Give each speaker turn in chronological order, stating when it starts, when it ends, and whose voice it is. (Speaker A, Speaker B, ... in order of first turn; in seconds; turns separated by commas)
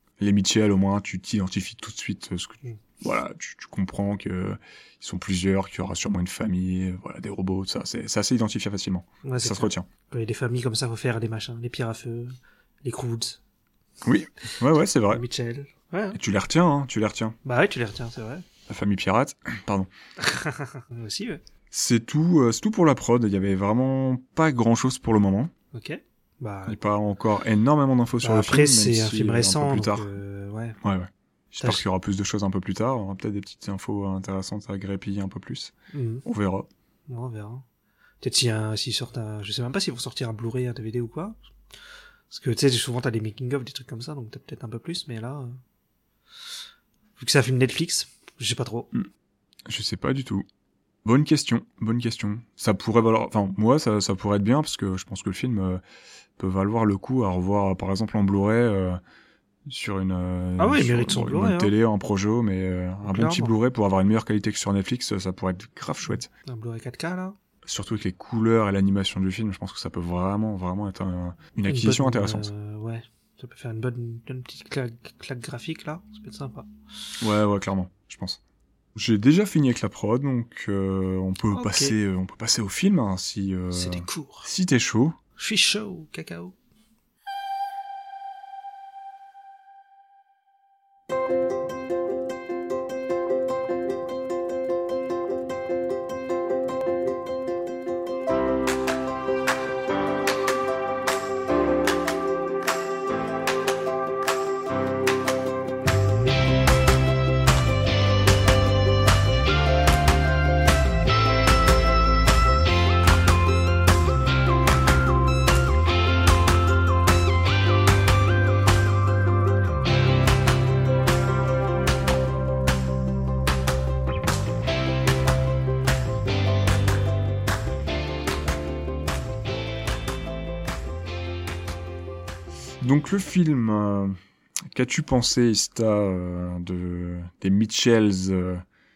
Speaker A: 0.2-9.9, Speaker B: 9.2-13.4, Speaker A: 14.0-15.2, Speaker B: 15.1-16.2, Speaker A: 16.1-17.4, Speaker B: 17.4-18.4, Speaker A: 18.7-19.9, Speaker B: 20.2-21.4, Speaker A: 21.7-25.5, Speaker B: 25.7-26.8, Speaker A: 26.6-30.1, Speaker B: 28.2-30.8, Speaker A: 30.8-35.7, Speaker B: 35.9-36.2, Speaker A: 36.2-36.7, Speaker B: 37.1-37.6, Speaker B: 38.2-41.4, Speaker B: 42.3-45.6, Speaker B: 47.2-48.9, Speaker A: 49.7-50.4, Speaker A: 51.0-55.8, Speaker A: 56.4-59.0, Speaker A: 59.7-66.3, Speaker B: 60.6-61.7, Speaker B: 63.0-63.5, Speaker B: 66.4-67.3, Speaker A: 67.6-72.5, Speaker B: 71.7-76.7, Speaker A: 77.2-78.4, Speaker A: 79.0-85.2, Speaker B: 81.5-82.0, Speaker B: 83.7-84.5, Speaker B: 85.4-86.5, Speaker A: 132.8-134.2, Speaker A: 134.7-138.6